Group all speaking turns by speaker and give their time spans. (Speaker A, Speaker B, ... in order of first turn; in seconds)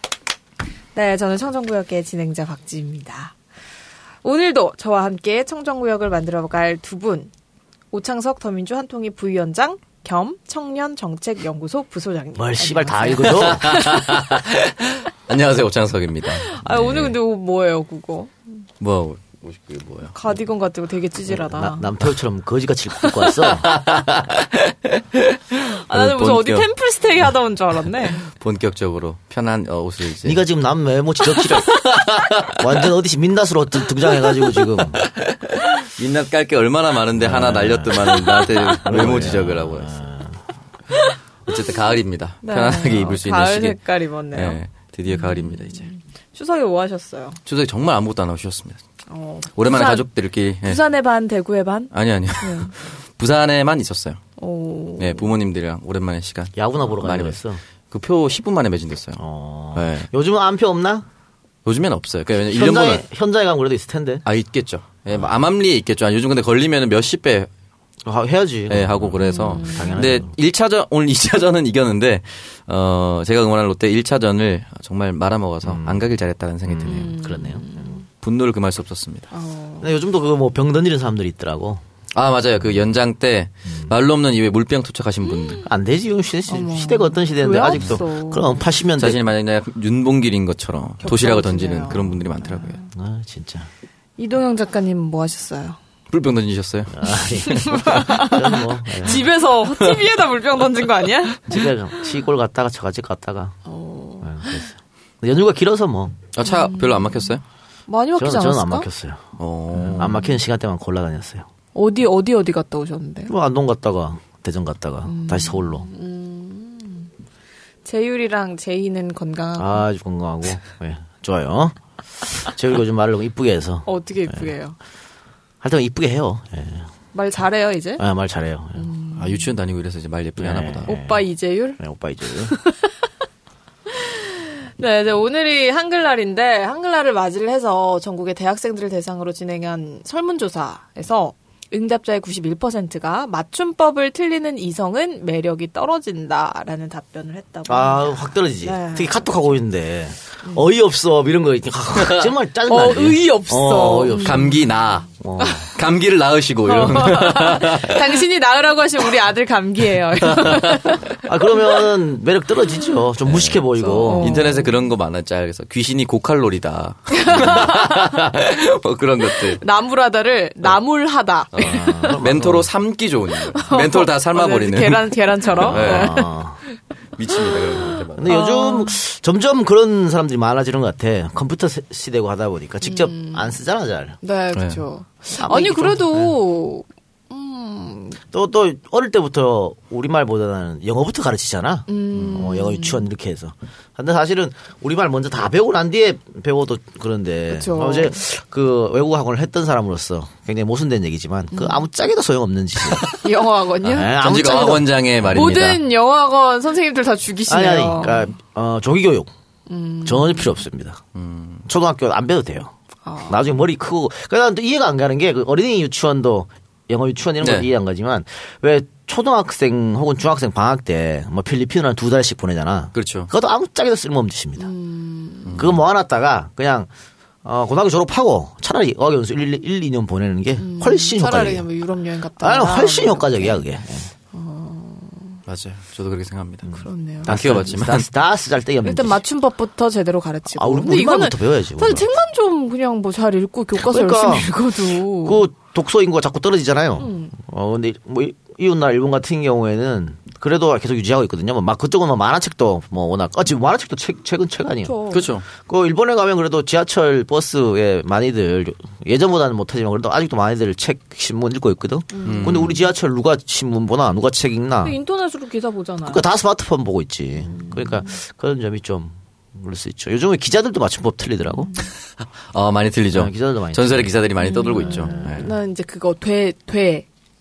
Speaker A: 0.9-3.3, 4.2-7.3, 7.9-14.2, 16.4-18.3, 20.1-21.9, 25.6-28.2, 42.4-47.4, 49.1-50.1, 50.6-52.7, 54.4-55.3, 69.2-70.2, 76.8-78.0, 79.3-79.9, 85.3-85.6, 86.5-88.6, 91.0-92.9, 94.2-95.8, 97.3-102.0, 103.7-104.6, 106.4-107.3, 107.9-108.9, 110.0-110.3, 111.8-113.3, 115.0-117.1, 117.8-119.8, 123.8-124.8, 127.1-128.0, 128.8-129.5, 130.9-131.8, 132.5-132.9, 133.9-149.2, 152.7-154.6, 155.4-155.7, 156.6-161.7, 163.8-164.7, 167.1-168.2, 169.6-172.2, 173.4-176.8, 177.5-179.0, 182.8-183.5, 184.2-188.2, 191.9-193.1, 197.5-198.2, 201.5-201.8, 203.2-204.2, 205.3-208.3, 209.7-210.6, 213.0-213.5, 224.6-225.6, 230.6-233.6, 234.3-235.4, 236.7-237.3, 238.8-245.5, 247.0-247.3, 254.8-255.3, 262.1-262.8, 264.8-266.2, 267.4-268.1, 274.4-277.1
Speaker B: 12.4-13.7, 21.3-23.7, 30.2-31.8, 32.5-35.0, 37.2-40.4, 56.5-57.6, 59.2-61.0, 62.5-64.2, 68.0-70.3, 75.6-76.0, 76.7-77.8, 79.8-81.8, 85.7-89.2, 92.9-93.7, 96.9-99.2, 101.5-103.6, 104.2-106.2, 108.2-109.2, 109.8-111.5, 113.3-115.9, 119.6-121.8, 122.3-124.4, 125.6-126.9, 128.0-128.9, 130.4-131.2, 131.8-132.5, 147.7-154.6, 155.2-155.7, 161.2-164.4, 171.6-172.7, 175.5-176.6, 178.2-184.2, 185.4-186.3, 188.3-203.1, 203.8-204.9, 207.5-209.3, 210.0-211.0, 211.7-212.7, 213.3-224.7, 225.6-226.9, 227.4-231.7, 232.4-234.1, 237.2-239.2, 240.5-242.1, 243.8-244.5, 245.2-254.9, 255.5-265.0, 266.1-271.7, 273.1-274.1, 274.9-275.3
Speaker C: 13.2-17.1, 18.8-20.1, 23.6-26.7, 28.2-30.4, 31.3-32.8, 34.2-40.0, 41.5-43.8, 44.3-45.9, 47.5-48.8, 49.5-50.8, 51.9-54.2, 55.0-57.4, 57.9-59.2, 59.7-60.1, 61.6-63.0, 64.2-67.5, 68.7-77.1, 78.2-79.3, 82.2-85.7, 89.0-92.8, 96.1-98.3, 99.1-100.0, 106.3-107.4, 109.4-110.2, 129.2-130.9, 152.0-152.3, 154.1-155.1, 155.7-158.0, 160.2-161.0, 163.2-163.6, 164.2-169.6, 171.5-176.3, 177.2-178.4, 184.5-184.8, 202.9-203.2, 204.1-205.8, 211.1-211.6, 217.4-217.7, 222.9-223.3, 225.5-225.8, 235.5-238.0, 255.1-255.4, 262.2-262.7, 272.5-275.5